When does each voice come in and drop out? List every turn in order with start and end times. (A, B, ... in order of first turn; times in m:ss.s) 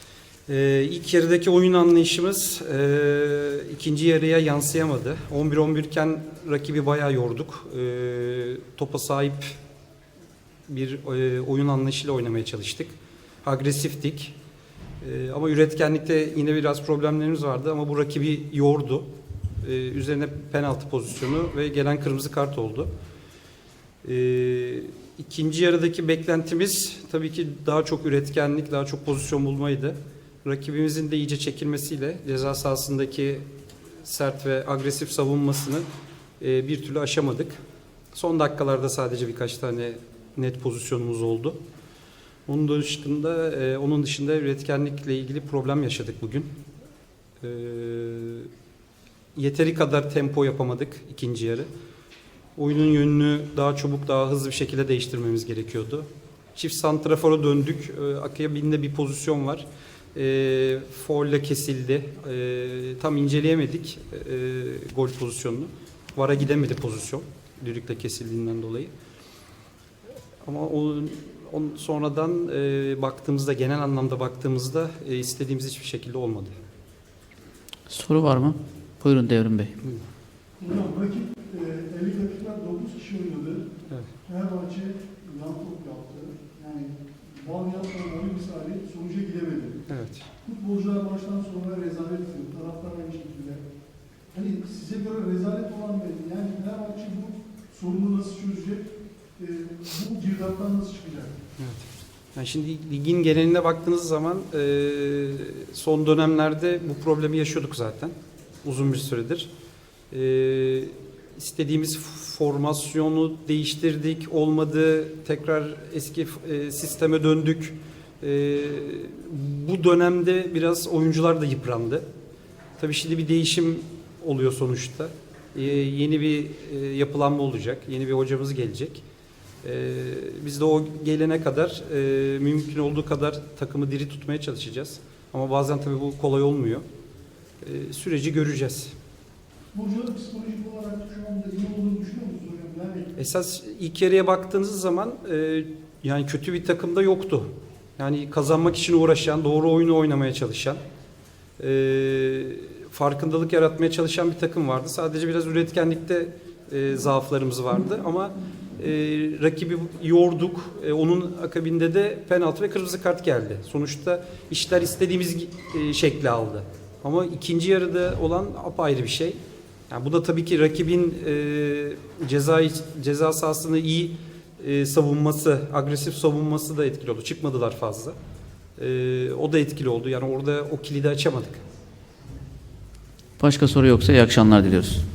0:00.5-0:09.6 A
0:10.7-0:14.4 A
0:15.0-0:19.1 A
0:19.6-0:22.9 A
0:24.0-0:33.4 A
0:34.0-0:35.8 A
0:36.4-0:37.6 A
0:38.1-0:41.6 A
0:42.5-0:46.5 A
0:47.4-0:48.5 A
0:49.4-0:51.7 A
0:52.6-1:08.9 A
1:10.4-1:16.5 A
1:17.9-1:19.7 B
1:20.6-1:23.7 C
1:24.2-1:29.9 C
1:29.9-1:30.3 A
1:30.4-1:33.6 C
1:34.3-1:41.4 C
1:41.6-1:49.5 A
1:50.1-2:02.0 A
2:02.8-2:09.0 A
2:09.6-2:16.8 A
2:17.6-2:18.9 A
2:19.7-2:23.1 C
2:23.2-2:30.8 A
2:31.6-2:58.2 A
2:58.8-3:01.6 A
3:03.4-3:05.0 B